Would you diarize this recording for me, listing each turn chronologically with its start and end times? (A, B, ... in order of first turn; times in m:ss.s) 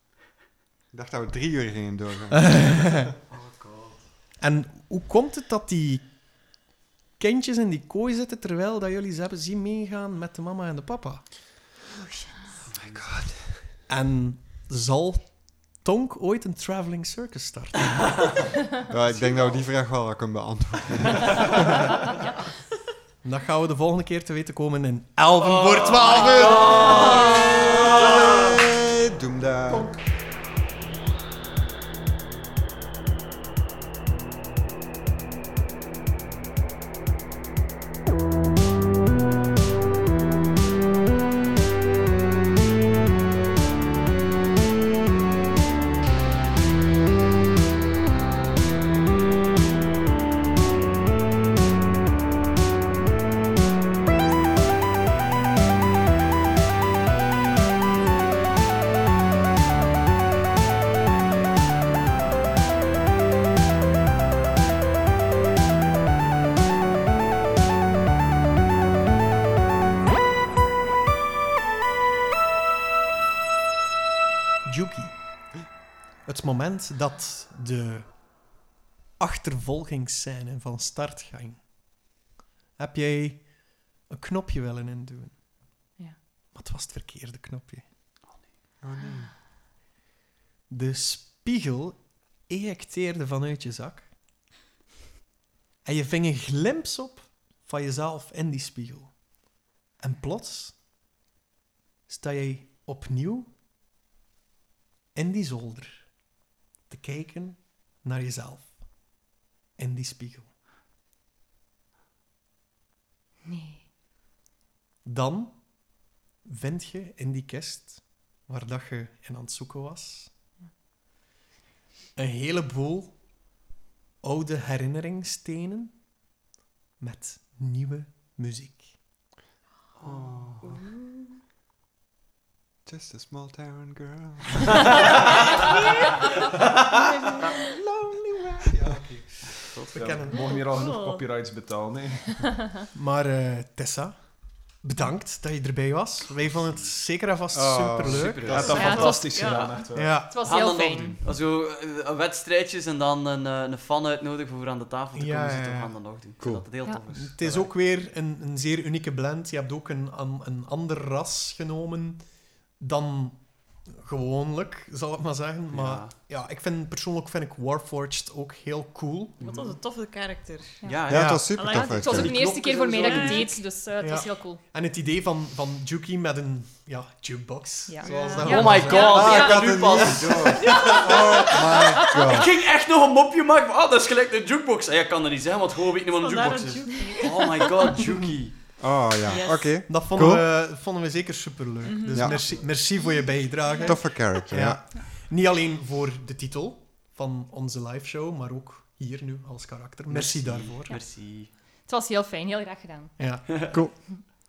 0:00.9-0:03.0 A
0:02.4-0:03.0 B
0:03.3-0:04.0 C
0:04.4-0:06.1 B
0:07.2-0:11.5 B
0:12.7-0:13.2 C
0:12.8-0:13.6 A
0:13.9-0:18.5 B
0:18.9-0:21.6 A
0:19.1-0:19.6 C
0:23.2-0:27.0 B
0:25.4-0:28.5 C
0:26.5-0:29.9 A
1:14.6-1:15.5 B
1:16.2-1:18.4 B
1:19.2-1:21.7 B
1:22.8-1:25.4 B
1:26.5-1:27.8 B
1:28.8-1:29.3 A
1:30.7-1:34.1 B
1:35.8-1:39.2 B
1:40.0-1:40.8 B
1:42.1-1:43.5 B
1:45.2-1:46.1 B
1:46.9-1:48.9 B
1:49.8-1:50.5 B
1:53.4-1:53.9 D
1:55.0-2:00.3 B
2:02.2-2:03.2 B
2:04.2-2:06.0 B
2:07.0-2:09.0 B
2:10.0-2:10.8 C
2:10.0-2:10.8 A
2:12.8-2:15.0 A
2:15.1-2:15.5 C
2:17.7-2:20.6 B
2:19.7-2:20.0 C
2:20.0-2:22.6 E
2:20.3-2:21.3 F
2:22.9-2:24.2 B
2:24.8-2:28.8 B
2:26.5-2:26.9 C
2:27.5-2:29.0 A
2:28.0-2:29.0 C
2:28.5-2:30.2 E
2:28.7-2:29.5 D
2:28.8-2:29.9 F
2:29.9-2:30.3 B
2:30.2-2:31.2 D
2:30.4-2:37.7 C
2:35.2-2:36.0 B
2:37.1-2:42.2 B
2:42.8-2:49.4 B
2:45.7-2:46.1 C
2:49.4-2:49.8 C
2:49.4-2:50.8 F
2:50.8-2:51.1 D
2:50.8-2:53.6 C
2:51.1-2:52.4 A
2:51.1-2:51.5 B
2:51.5-2:52.4 F
2:51.6-2:54.6 D
2:53.0-2:53.7 F
2:54.0-3:00.0 B
2:57.9-3:00.1 D
2:58.0-2:59.0 F
2:58.4-3:08.6 C
2:59.0-3:02.5 A
3:00.6-3:01.7 F
3:06.2-3:07.9 F
3:08.8-3:10.5 A
3:09.2-3:09.8 F
3:09.9-3:20.9 B
3:11.8-3:14.4 F
3:12.1-3:12.4 A
3:13.8-3:14.8 A
3:20.1-3:21.5 C
3:20.9-3:23.2 D
3:23.2-3:24.0 B